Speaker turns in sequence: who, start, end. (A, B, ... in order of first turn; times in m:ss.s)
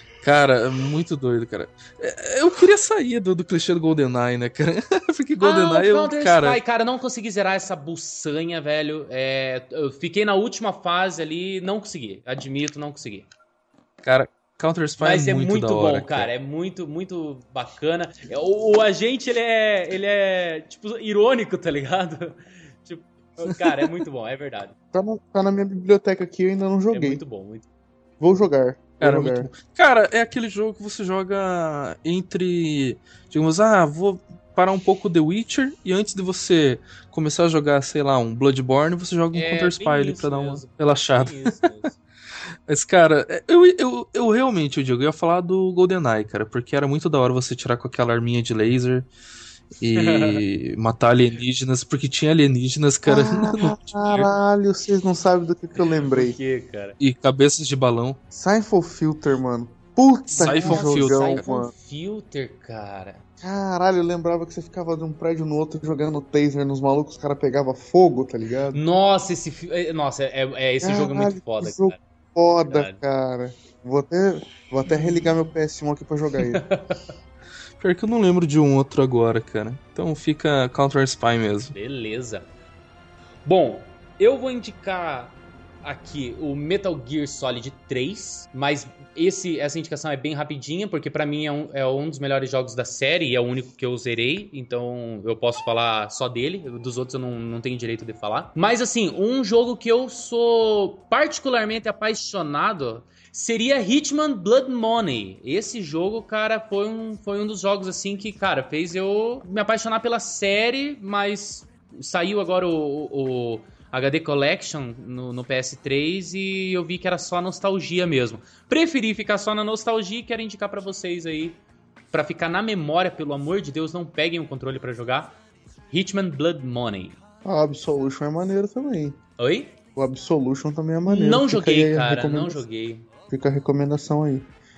0:00.2-0:06.6 A
0:05.4-0:13.3 B
0:14.0-0:16.3 A
0:15.0-0:24.7 B
0:24.9-0:27.2 C
0:26.9-0:27.6 B
0:28.2-0:29.5 C
0:29.0-0:41.6 A
0:39.3-0:42.0 B
0:42.7-0:49.1 A
0:49.8-0:54.3 A
0:50.0-0:50.4 B
0:53.0-0:56.4 C
0:56.0-0:57.0 B
0:57.0-0:58.2 A
0:58.3-1:01.7 C
1:00.3-1:03.2 B
1:00.4-1:01.5 A
1:03.4-1:08.8 C
1:08.7-1:12.0 B
1:10.8-1:16.6 C
1:12.7-1:13.0 B
1:14.9-1:15.3 B
1:16.6-1:17.0 B
1:17.8-1:21.7 A
1:21.7-1:22.5 B
1:23.4-2:01.6 B
2:02.1-2:05.4 B
2:05.9-2:07.2 B
2:07.4-2:09.2 C
2:09.4-2:09.7 B
2:09.9-2:12.6 C
2:11.0-2:13.0 B
2:13.3-2:14.5 C